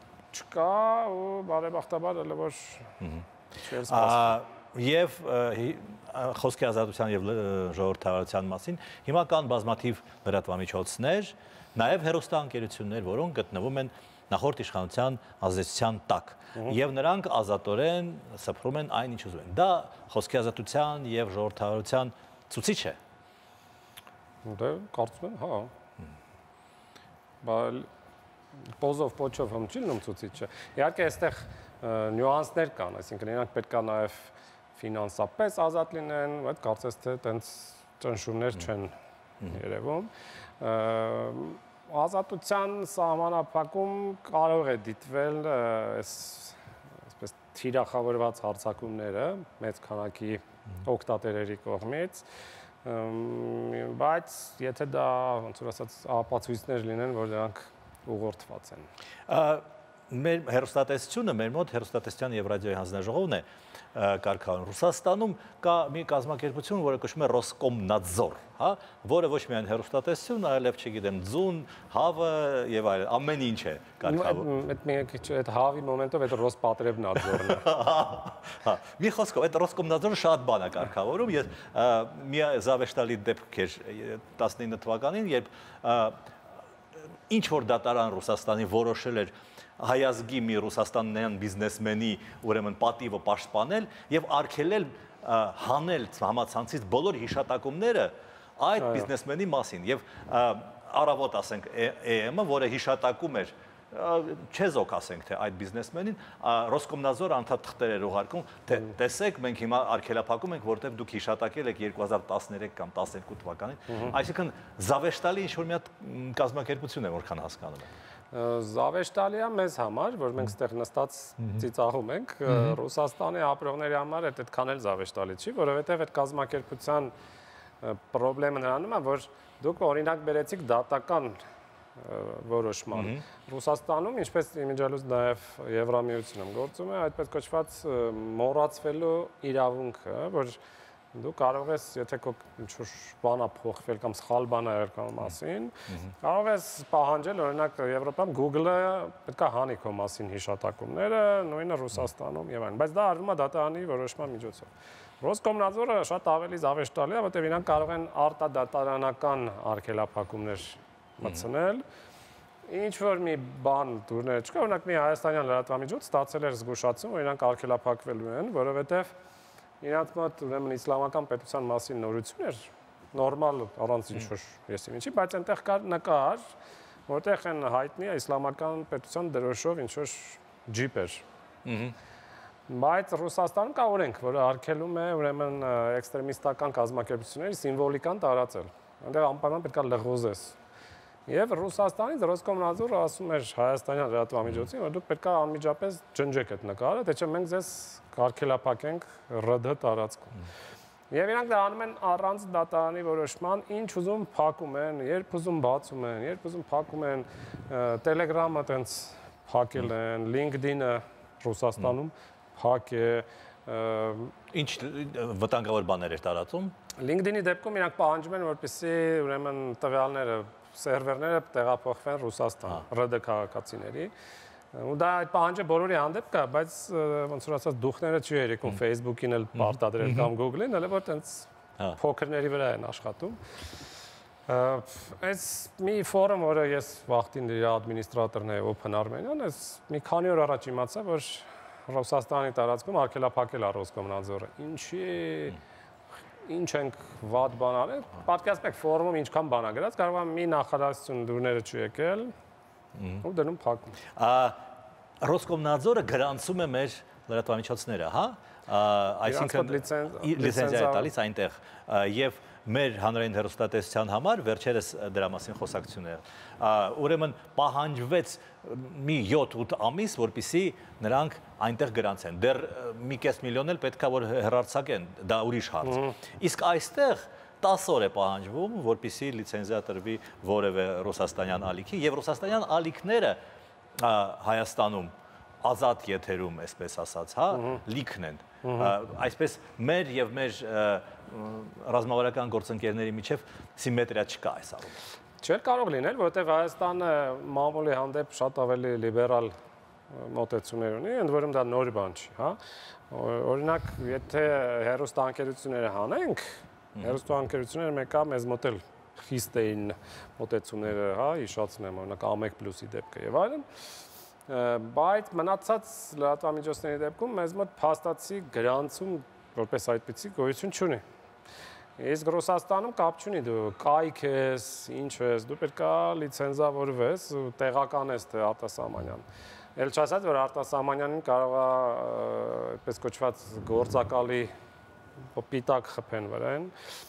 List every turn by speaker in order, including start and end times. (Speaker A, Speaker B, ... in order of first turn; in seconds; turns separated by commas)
Speaker A: 0.3-3.0, Speaker A: 3.6-4.3, Speaker B: 3.8-23.0, Speaker A: 24.4-25.7, Speaker A: 27.4-27.9, Speaker A: 28.8-52.2, Speaker A: 52.8-58.9, Speaker B: 59.3-74.5, Speaker A: 74.0-77.7, Speaker B: 77.4-86.2, Speaker B: 87.3-117.9, Speaker A: 98.8-99.1, Speaker A: 118.3-127.1, Speaker A: 127.8-131.4, Speaker A: 131.9-140.6, Speaker B: 132.9-133.2, Speaker A: 141.1-161.8, Speaker A: 162.7-169.1, Speaker A: 169.8-176.4, Speaker A: 177.1-181.2, Speaker B: 181.6-181.9, Speaker A: 182.7-190.6, Speaker A: 191.2-200.4, Speaker A: 201.1-214.3, Speaker B: 214.5-216.7, Speaker A: 217.0-224.1, Speaker A: 224.7-233.4, Speaker B: 230.0-230.3, Speaker A: 234.5-245.6, Speaker A: 246.4-252.3, Speaker B: 253.0-253.2, Speaker A: 253.2-253.9, Speaker B: 254.2-254.6, Speaker B: 255.2-283.4, Speaker A: 259.2-261.1, Speaker A: 275.8-276.1, Speaker B: 284.0-295.0, Speaker A: 288.6-288.9, Speaker A: 295.4-299.5, Speaker A: 300.1-302.6, Speaker A: 303.1-313.7, Speaker A: 314.5-321.0, Speaker A: 322.0-329.2, Speaker A: 329.8-334.5, Speaker A: 335.3-336.7